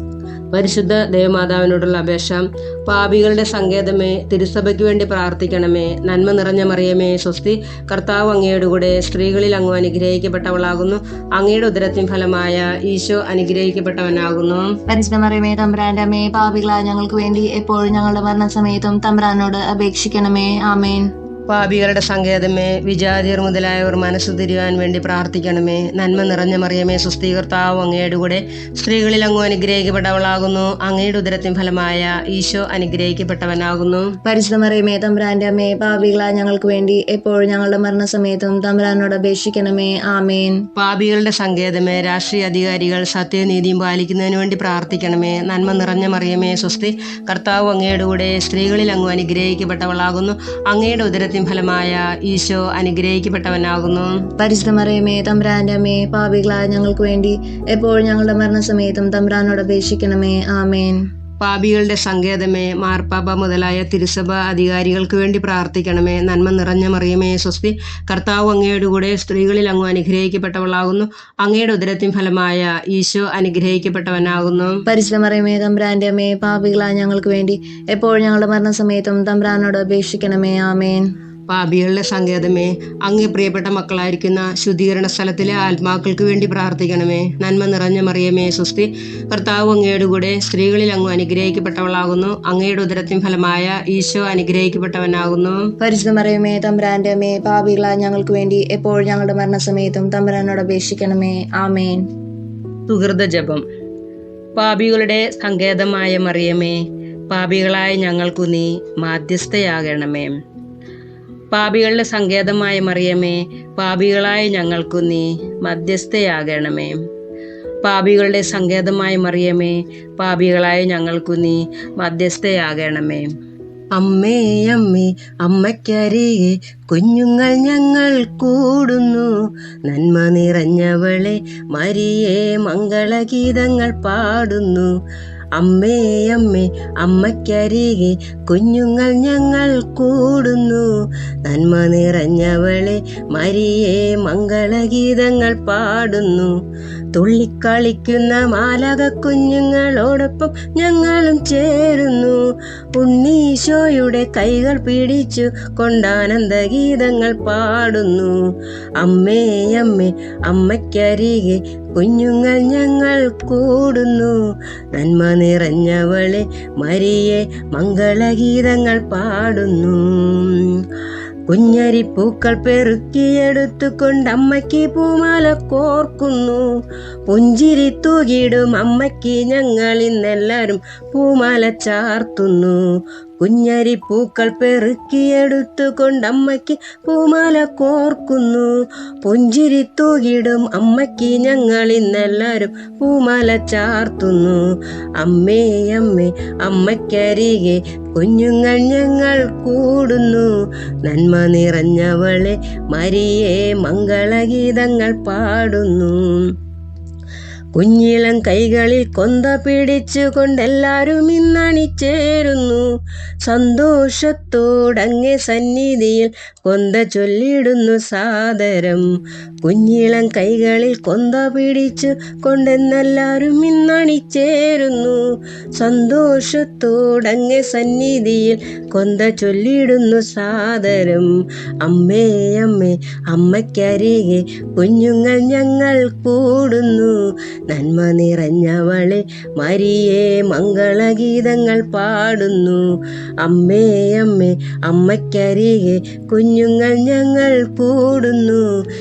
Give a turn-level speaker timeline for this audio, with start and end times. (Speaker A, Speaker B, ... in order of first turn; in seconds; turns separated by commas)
Speaker A: 0.5-14.7, Speaker B: 14.9-21.1, Speaker A: 21.5-34.1, Speaker B: 34.2-40.6, Speaker A: 40.8-54.2, Speaker B: 54.4-61.0, Speaker A: 61.4-74.8, Speaker B: 74.9-81.0, Speaker A: 81.5-95.6, Speaker B: 95.8-102.0, Speaker A: 102.9-103.6, Speaker A: 104.6-106.8, Speaker A: 107.3-110.3, Speaker A: 111.5-117.0, Speaker A: 117.8-123.3, Speaker A: 124.0-129.3, Speaker A: 129.9-134.9, Speaker A: 135.6-140.9, Speaker A: 141.4-146.5, Speaker A: 147.2-152.4, Speaker A: 153.0-158.4, Speaker A: 159.0-164.4, Speaker A: 164.9-170.7, Speaker A: 171.5-176.7, Speaker A: 177.3-182.8, Speaker A: 183.4-188.7, Speaker A: 189.2-194.6, Speaker A: 195.2-200.5, Speaker A: 201.1-206.4, Speaker A: 207.8-212.8, Speaker A: 213.4-219.1, Speaker A: 219.6-225.2, Speaker A: 225.8-231.3, Speaker A: 231.8-237.1, Speaker A: 237.7-242.8, Speaker A: 243.4-248.7